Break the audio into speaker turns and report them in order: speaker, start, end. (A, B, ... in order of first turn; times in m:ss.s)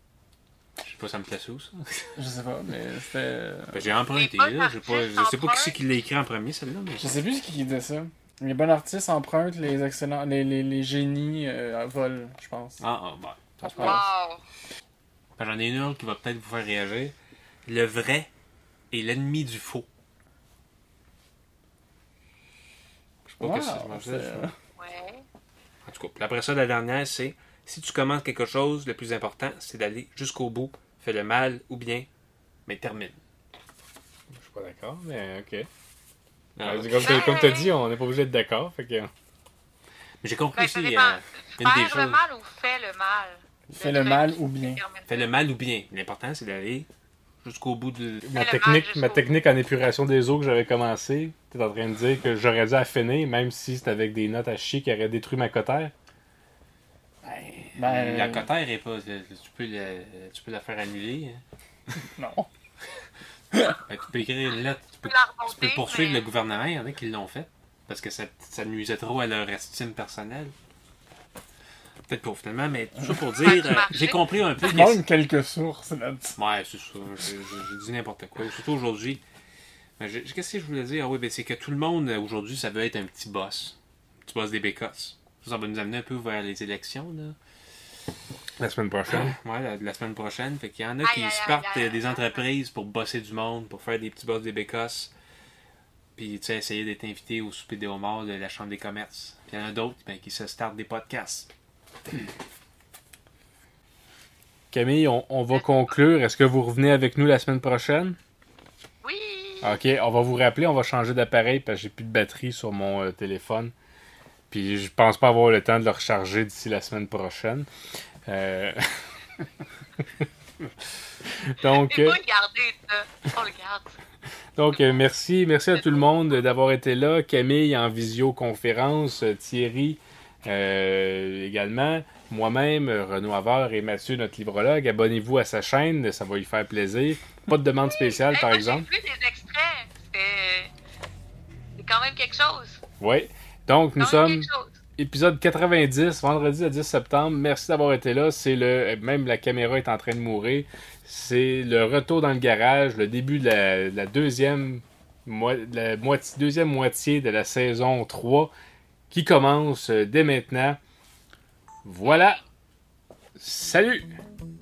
0:00.8-0:02.1 A
0:02.2-0:03.9 B
0:03.7-0:07.1 A
0:04.1-0:05.8 C
0:07.0-0:12.8 B
0:12.8-0:14.0 A
0:13.7-0:14.4 C
0:13.7-0:14.0 B
0:15.4-0:17.1 A
0:17.6-0:18.3 A
0:18.9-0:19.9 A
0:23.2-0:24.5 A
0:23.4-0:24.5 B
0:24.8-0:25.2 C
0:25.8-0:32.0 A
0:32.6-0:33.2 A
0:34.3-0:35.7 D
0:36.6-0:37.5 A
0:36.6-0:39.1 D
0:37.0-0:37.7 C
0:40.2-0:42.2 A
0:40.5-0:45.3 C
0:43.7-0:44.8 B
0:45.1-0:46.9 A
0:47.4-0:48.3 A
0:48.2-0:55.9 D
0:48.3-0:49.2 C
0:57.2-1:01.4 A
0:57.7-0:58.5 B
1:02.0-1:02.5 B
1:03.9-1:10.5 A
1:05.0-1:06.3 C
1:12.1-1:15.0 A
1:13.4-1:14.2 C
1:14.6-1:16.4 B
1:16.4-1:19.2 A
1:20.0-1:27.4 A
1:28.6-1:29.4 D
1:29.1-1:35.1 A
1:31.0-1:32.4 C
1:36.2-1:41.5 A
1:44.7-1:48.2 D
1:49.0-1:49.8 C
1:49.6-1:53.7 D
1:54.5-1:57.7 D
1:58.3-1:58.8 D
2:01.4-2:02.2 D
2:01.9-2:04.0 C
2:04.6-2:18.9 D
2:05.8-2:06.1 C
2:17.9-2:20.7 C
2:21.8-2:22.8 C
2:23.0-2:38.5 D
2:24.0-2:24.8 C
2:39.1-2:40.8 D
2:41.8-2:42.4 D
2:42.0-2:42.4 C
2:43.4-2:44.1 D